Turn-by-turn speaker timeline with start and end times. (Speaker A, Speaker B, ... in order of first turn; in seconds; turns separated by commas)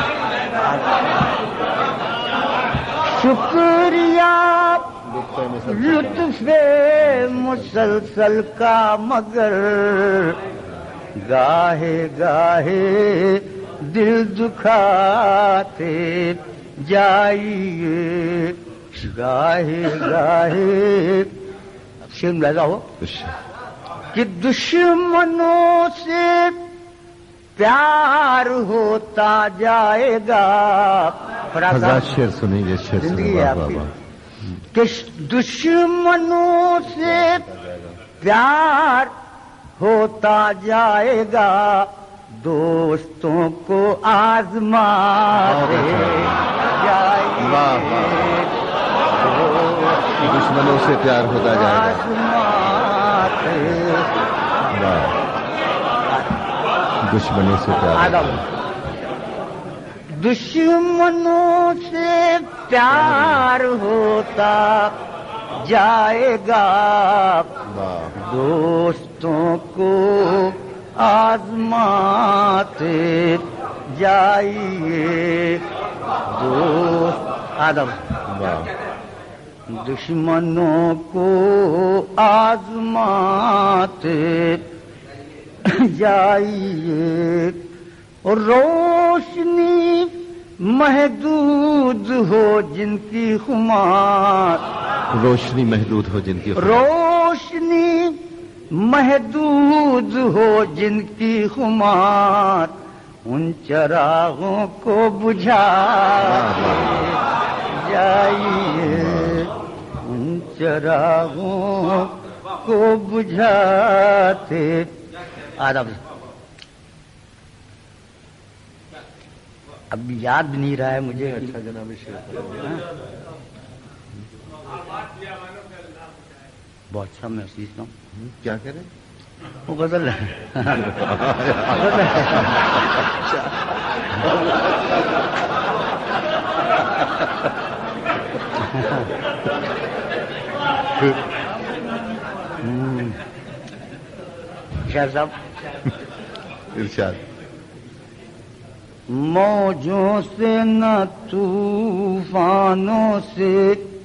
Speaker A: 0.6-1.1, Speaker A: 3.0-4.9, Speaker B: 5.0-6.4, Speaker A: 5.7-10.4, Speaker B: 7.0-8.1, Speaker A: 11.2-21.3, Speaker A: 22.1-22.8, Speaker B: 23.0-23.3, Speaker A: 24.1-26.6, Speaker A: 27.6-32.1, Speaker B: 31.7-33.9, Speaker A: 33.0-33.9, Speaker A: 34.7-37.4, Speaker B: 37.0-38.0, Speaker A: 38.2-39.1, Speaker A: 39.8-48.5, Speaker B: 45.4-46.5, Speaker B: 47.4-48.4, Speaker A: 49.2-50.7, Speaker B: 50.2-52.0, Speaker A: 51.4-54.1, Speaker B: 54.7-55.2, Speaker A: 56.1-56.4, Speaker B: 57.0-58.4, Speaker A: 57.9-58.5, Speaker A: 60.1-65.0, Speaker B: 63.0-63.4, Speaker A: 65.6-67.5, Speaker B: 67.7-68.2, Speaker A: 68.2-75.6, Speaker A: 76.3-78.0, Speaker B: 78.3-78.7, Speaker A: 79.7-84.6, Speaker A: 85.6-87.6, Speaker A: 88.2-94.6, Speaker B: 95.1-96.8, Speaker A: 96.5-98.2, Speaker A: 98.7-102.7, Speaker A: 103.2-114.9, Speaker B: 106.2-107.1, Speaker B: 108.8-109.5, Speaker A: 115.6-116.0, Speaker A: 119.9-121.5, Speaker B: 121.2-122.6, Speaker A: 126.9-127.9, Speaker B: 128.2-128.9, Speaker A: 129.7-130.9, Speaker B: 130.8-133.3, Speaker A: 131.7-132.6, Speaker A: 138.8-139.0, Speaker A: 142.6-143.2, Speaker A: 144.8-145.3, Speaker B: 146.7-147.2, Speaker A: 149.1-153.8